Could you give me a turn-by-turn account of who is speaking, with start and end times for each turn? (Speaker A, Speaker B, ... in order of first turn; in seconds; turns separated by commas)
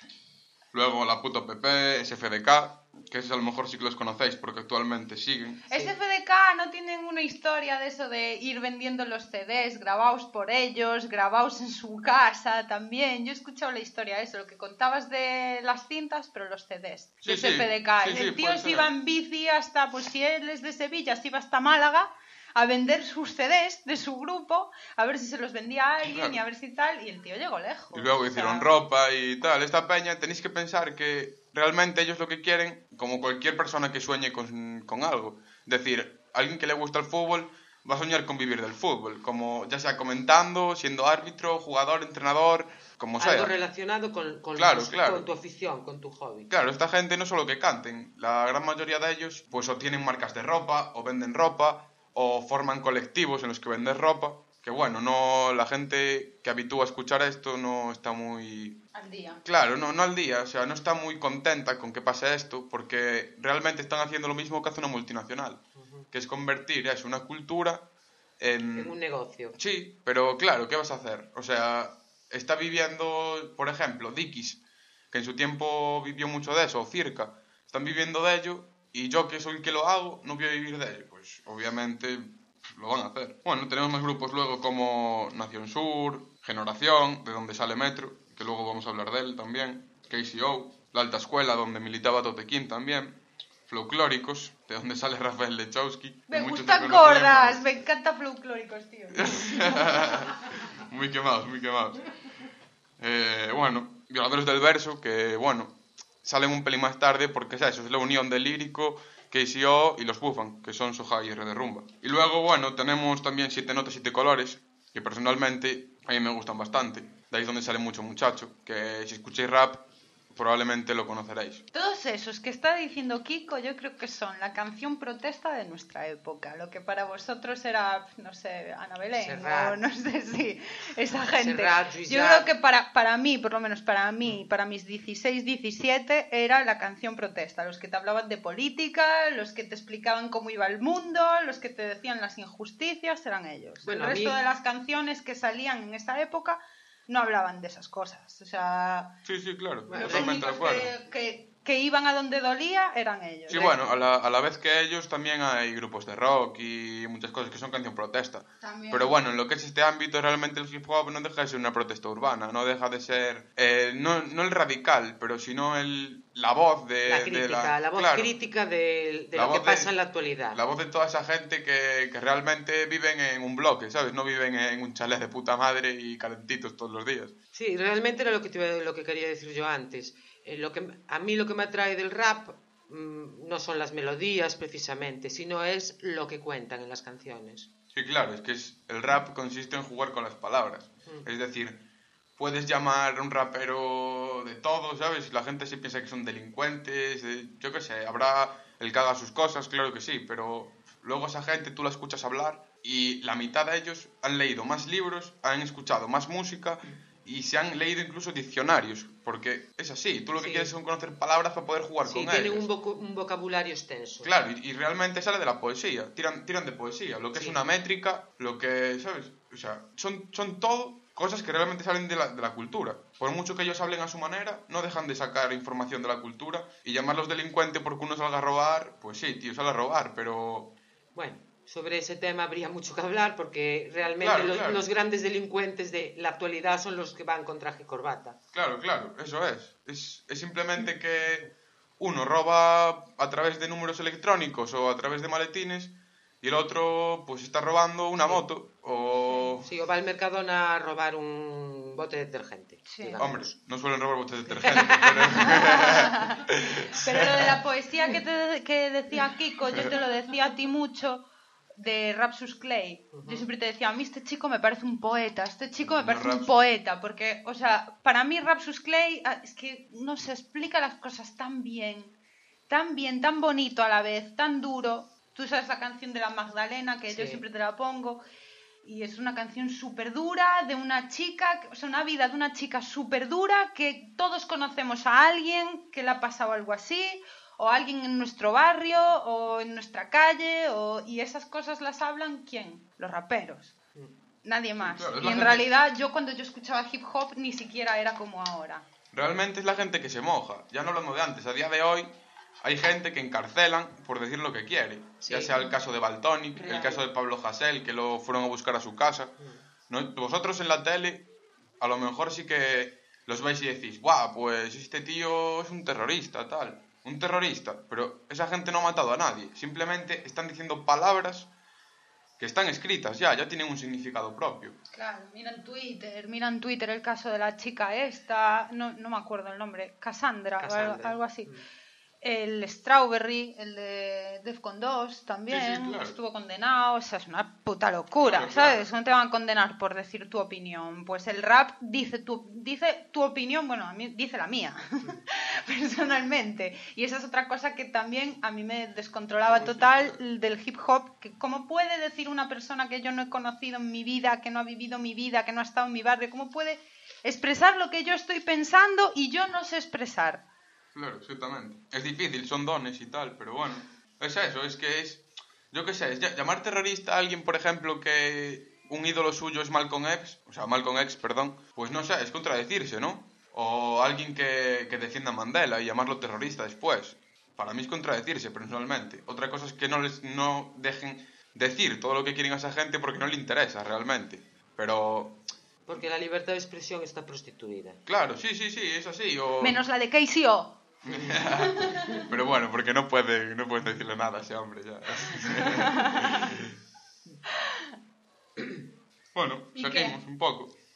Speaker A: 0.7-5.9, Speaker B: 5.7-28.7, Speaker A: 17.2-18.9, Speaker A: 26.0-26.4, Speaker A: 27.9-43.5, Speaker C: 43.2-46.5, Speaker A: 44.6-45.3, Speaker A: 46.5-58.8, Speaker B: 58.9-59.4, Speaker A: 59.5-67.9, Speaker C: 65.8-66.1, Speaker A: 68.4-69.0, Speaker C: 68.7-69.5, Speaker A: 69.5-97.8, Speaker B: 96.3-100.0, Speaker A: 99.1-102.0, Speaker A: 103.0-121.6, Speaker B: 121.7-149.1, Speaker C: 129.2-129.8, Speaker C: 131.3-132.5, Speaker C: 143.8-144.4, Speaker A: 149.2-150.9, Speaker C: 149.9-150.3, Speaker B: 149.9-153.7, Speaker A: 153.5-168.3, Speaker C: 153.5-153.8, Speaker B: 158.6-159.2, Speaker C: 167.1-170.6, Speaker A: 169.3-169.9, Speaker A: 170.5-177.3, Speaker C: 177.5-187.7, Speaker A: 187.9-191.8, Speaker A: 192.4-212.7, Speaker C: 210.4-210.7, Speaker C: 212.1-214.3, Speaker A: 214.2-230.8, Speaker C: 231.2-238.4, Speaker A: 234.2-234.9, Speaker A: 238.5-249.7, Speaker C: 249.7-253.5, Speaker B: 252.9-253.2, Speaker A: 253.2-257.6, Speaker C: 254.5-255.4, Speaker B: 255.4-256.4, Speaker B: 256.9-261.2, Speaker B: 261.8-272.1, Speaker C: 263.1-263.5, Speaker A: 265.8-266.6, Speaker B: 272.7-278.2, Speaker C: 277.1-277.4, Speaker B: 278.8-293.8, Speaker B: 294.4-298.9, Speaker A: 294.8-295.7, Speaker A: 299.1-309.3, Speaker C: 305.2-305.6, Speaker C: 306.6-307.0, Speaker A: 309.9-311.3, Speaker A: 311.8-321.5, Speaker A: 322.4-324.8, Speaker B: 324.9-331.5, Speaker C: 330.6-331.6, Speaker B: 332.2-360.4, Speaker A: 335.5-336.2, Speaker A: 338.2-338.9, Speaker A: 360.9-385.4, Speaker C: 385.9-388.0, Speaker A: 388.1-389.8, Speaker B: 389.6-390.8, Speaker A: 391.1-396.8, Speaker C: 391.1-391.4, Speaker A: 399.3-400.7, Speaker B: 399.7-400.2